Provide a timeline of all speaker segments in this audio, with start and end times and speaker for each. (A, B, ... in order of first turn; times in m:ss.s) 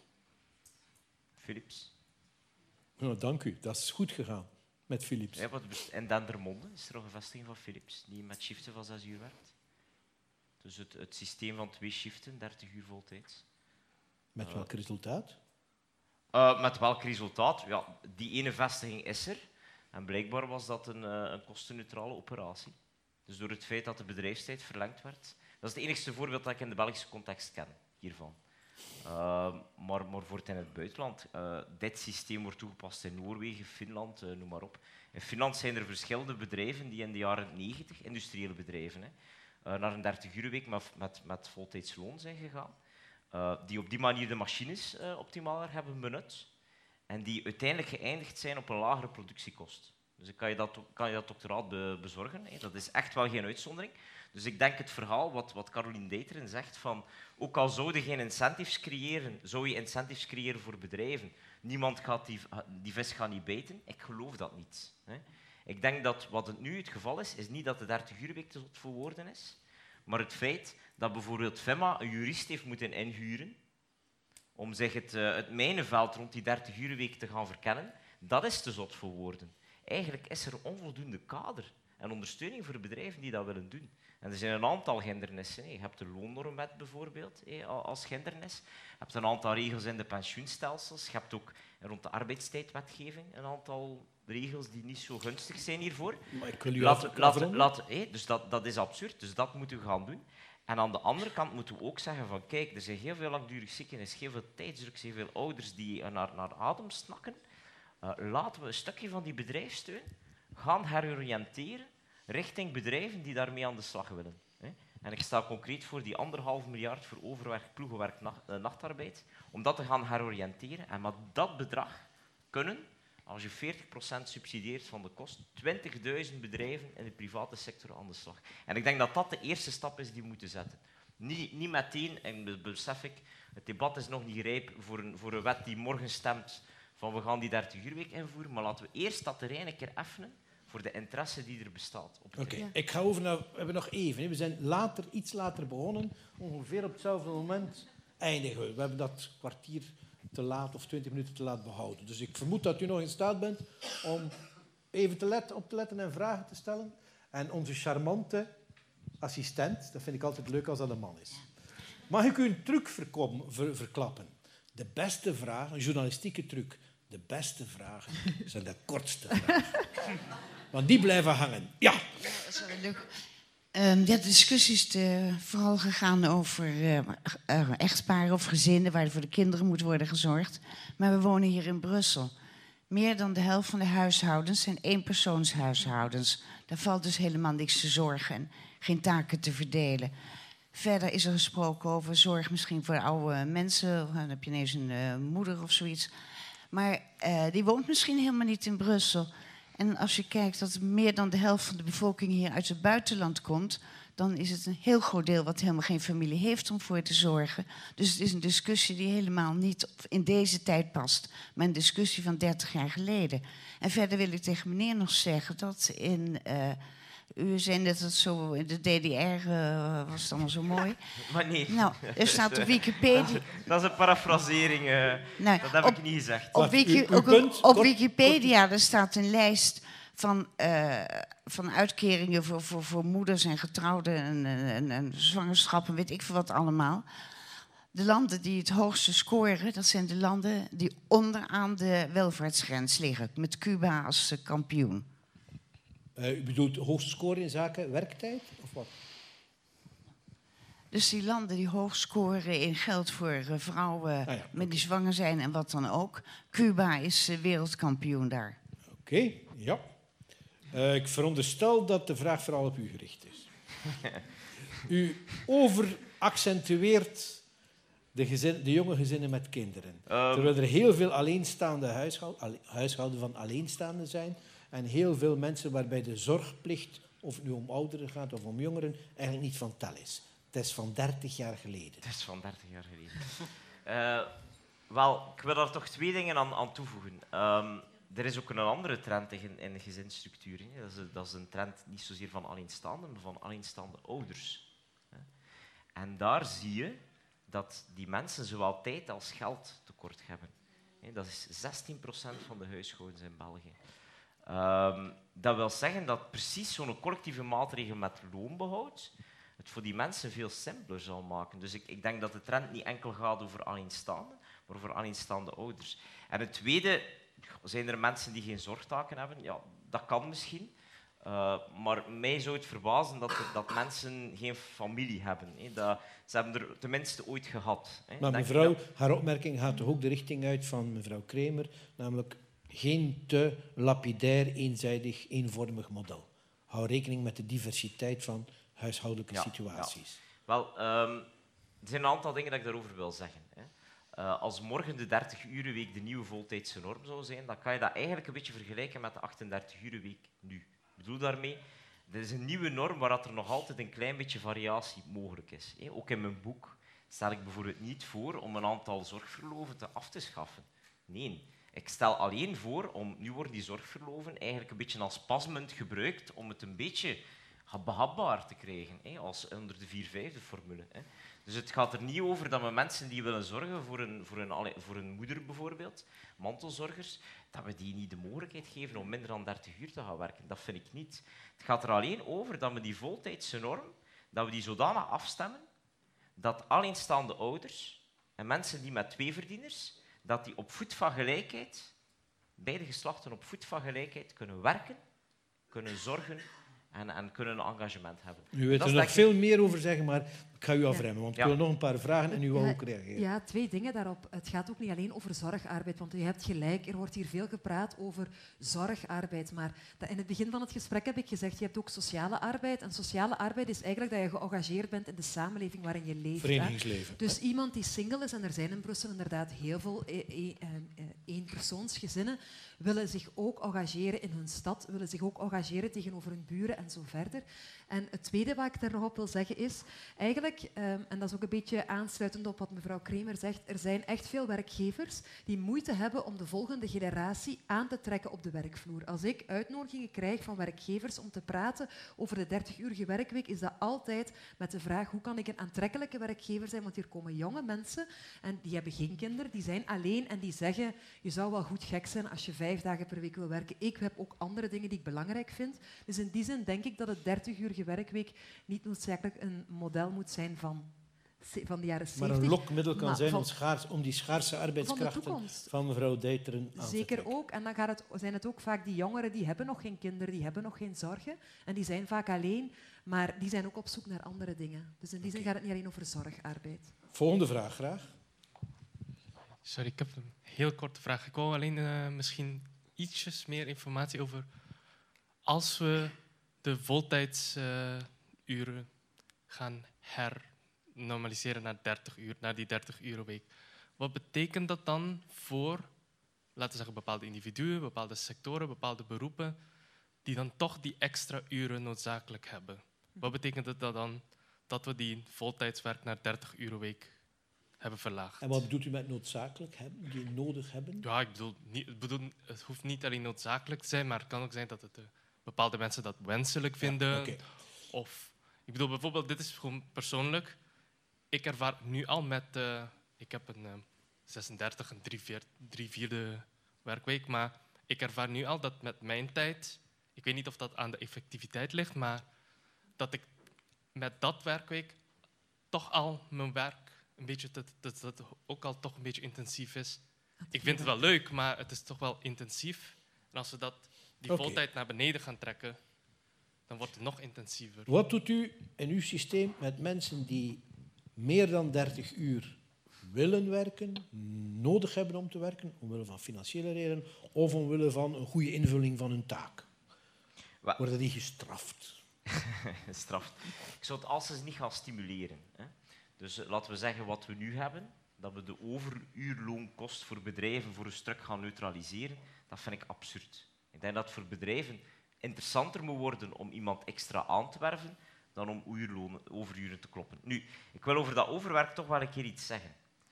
0:01.4-0:01.9 A
0:03.0-0:05.4 B
0:05.4-0:09.5 A
0:10.6-0:13.4 A
0:14.4-0:15.4 B
0:14.4-0:14.7 A
0:16.3-0:22.8 A
0:23.3-0:28.4 A
0:29.0-0:39.1 A
0:39.6-0:42.8 A
0:43.3-0:46.5 A
0:47.1-1:13.6 A
1:14.6-1:36.2 A
1:36.3-1:37.7 B
1:36.8-1:47.4 A
1:48.0-2:22.6 A
2:22.4-2:34.4 B
2:34.9-2:38.6 B
2:39.2-2:41.4 B
2:42.1-2:49.9 B
2:50.7-2:52.0 B
2:52.4-2:53.0 C
2:53.7-3:02.3 C
3:02.9-3:10.1 C
3:10.7-3:16.1 C
3:16.7-3:36.8 C
3:37.3-3:41.0 C
3:41.2-3:46.6 A
3:41.7-3:43.6 C
3:45.4-3:57.0 C
3:46.6-3:48.5 B
3:57.9-4:05.0 C
4:06.2-4:09.0 B
4:10.9-4:18.6 C
4:14.3-4:14.8 B
4:18.9-4:19.8 B
4:20.7-4:23.5 B
4:24.8-4:27.4 B
4:28.1-4:42.0 B
4:30.1-4:30.6 A
4:42.0-4:44.3 A
4:44.9-4:55.3 A
4:56.0-5:03.8 A
5:04.5-5:28.8 A
5:28.2-5:40.2 B
5:39.3-5:41.3 A
5:41.8-6:25.6 A
6:26.4-6:31.9 A
6:32.6-6:35.0 A
6:35.7-6:39.4 A
6:38.5-6:43.3 B
6:42.3-7:43.5 D
6:56.4-6:57.4 B
7:42.2-7:47.3 B
7:44.8-7:45.7 D
7:46.8-7:56.9 D
7:57.1-7:58.2 B
7:59.6-8:04.6 E
8:05.4-8:16.0 E
8:16.5-8:19.6 E
8:20.2-8:28.7 E
8:28.4-8:31.1 B
8:31.0-8:40.6 E
8:36.8-8:37.4 B
8:41.3-8:52.3 E
8:53.0-8:53.3 E
8:53.9-8:55.0 E
8:55.7-9:06.0 E
9:00.4-9:01.0 D
9:04.3-9:04.6 B
9:06.6-9:07.9 E
9:07.9-9:10.6 B
9:11.2-9:19.7 B
9:20.8-9:22.0 B
9:22.6-9:42.8 A